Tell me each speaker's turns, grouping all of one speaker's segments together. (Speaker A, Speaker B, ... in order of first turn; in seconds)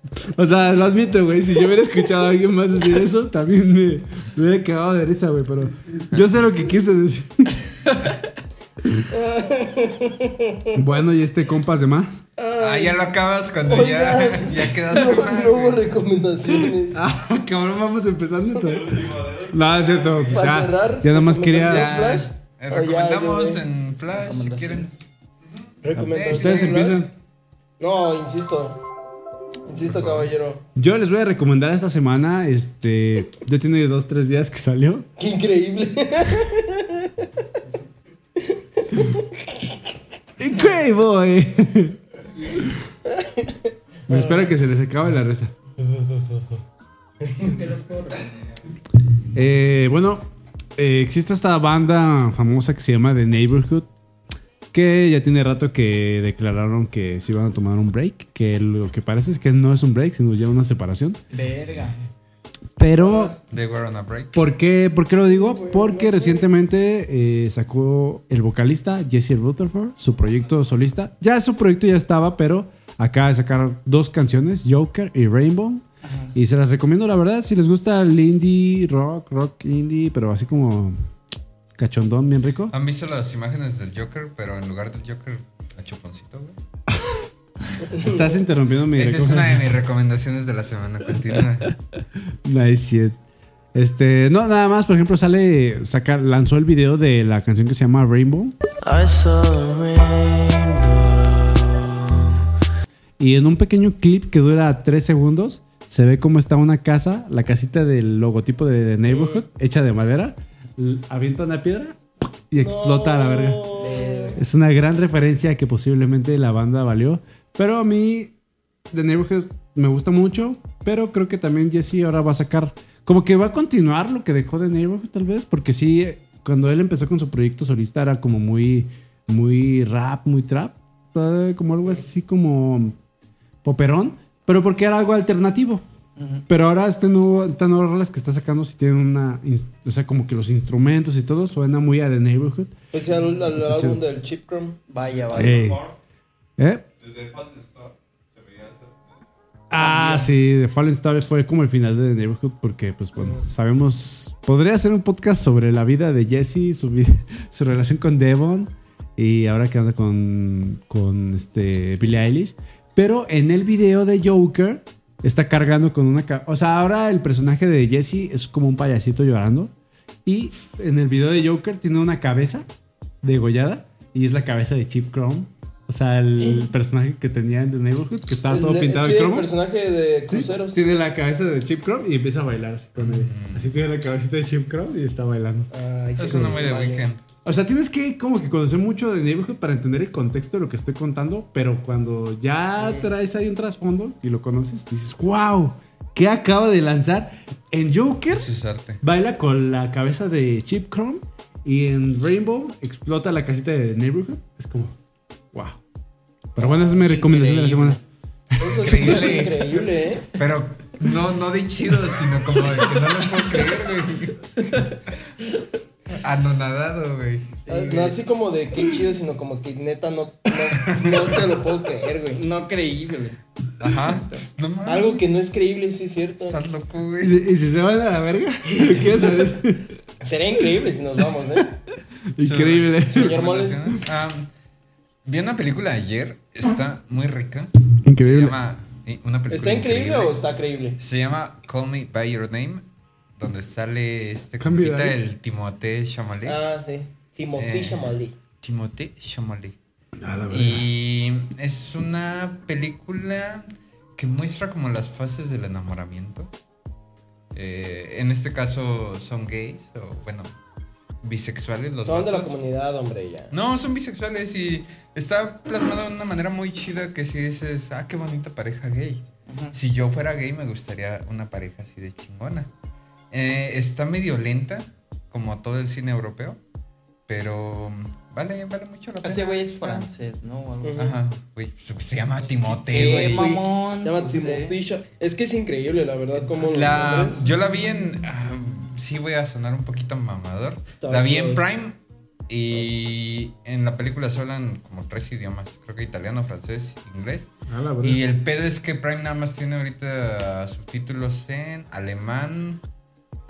Speaker A: 0.3-7.7, 10.7-12.3, 16.5-22.1, 25.9-27.1, 30.8-35.1, 40.4-42.0, 44.1-45.5, 49.3-53.9, 54.7-61.2, 62.8-63.4, 64.3-75.8, 76.3-81.0, 81.8-82.7, 86.9-87.2, 88.0-89.7, 91.4-91.7, 92.4-93.2, 93.7-98.5, 103.2-112.0, 112.5-113.7, 114.4-118.3, 118.9-133.0, 133.6-135.8, 136.5-142.7, 143.5-144.0, 145.3-145.8, 146.6-146.9, 149.7-169.7, 170.2-172.7, 173.2-179.5, 180.3-185.7, 186.2-186.6, 187.4-205.0, 205.5-205.8, 206.6-208.0, 208.6-209.4, 227.2-229.9, 232.3-233.4, 238.0-238.6, 244.6-245.2, 250.2-250.9, 297.7-298.2
Speaker B: 9.1-10.8, 12.4-13.1, 13.7-17.0, 20.3-23.6, 25.8-27.0, 27.8-28.8, 29.7-30.6, 35.2-37.3, 38.4-39.7, 43.1-44.5, 45.9-46.4, 47.2-47.6, 63.0-63.4, 65.2-66.5, 88.0-88.3, 109.1-109.4, 112.6-114.4, 142.9-144.8, 178.5-180.8, 185.7-187.1, 192.8-193.1, 208.6-210.3, 217.7-222.4, 224.9-226.6, 228.8-229.5, 230.2-231.8, 233.1-234.0, 239.5-241.0, 246.4-248.3, 262.1-263.5, 280.8-281.1, 282.9-287.4, 290.9-291.7
Speaker C: 12.6-15.9, 21.5-24.9, 26.1-27.0, 29.8-30.3, 63.5-64.4, 82.7-86.6, 88.9-91.7, 183.0-183.7, 186.2-187.2, 198.3-199.0, 208.7-214.4, 216.2-218.2, 220.8-221.3, 223.8-225.2, 226.4-227.4, 232.4-234.5, 235.2-240.4, 241.0-242.8, 243.4-246.6, 247.6-249.8, 250.5-256.5, 257.5-260.5, 261.2-262.6, 263.5-272.7, 273.3-276.6, 277.3-280.1, 281.0-283.6, 286.5-292.0, 292.5-302.8
Speaker D: 18.6-20.5, 145.3-146.0, 147.0-149.3
Speaker E: 24.1-24.9, 47.4-48.6, 61.3-62.0, 76.0-76.3, 113.8-114.4, 136.2-136.4, 144.9-145.7, 149.8-150.3, 206.6-208.0, 222.3-223.4, 224.0-224.4, 269.5-269.8, 279.2-281.1, 282.7-284.8
Speaker F: 98.9-102.0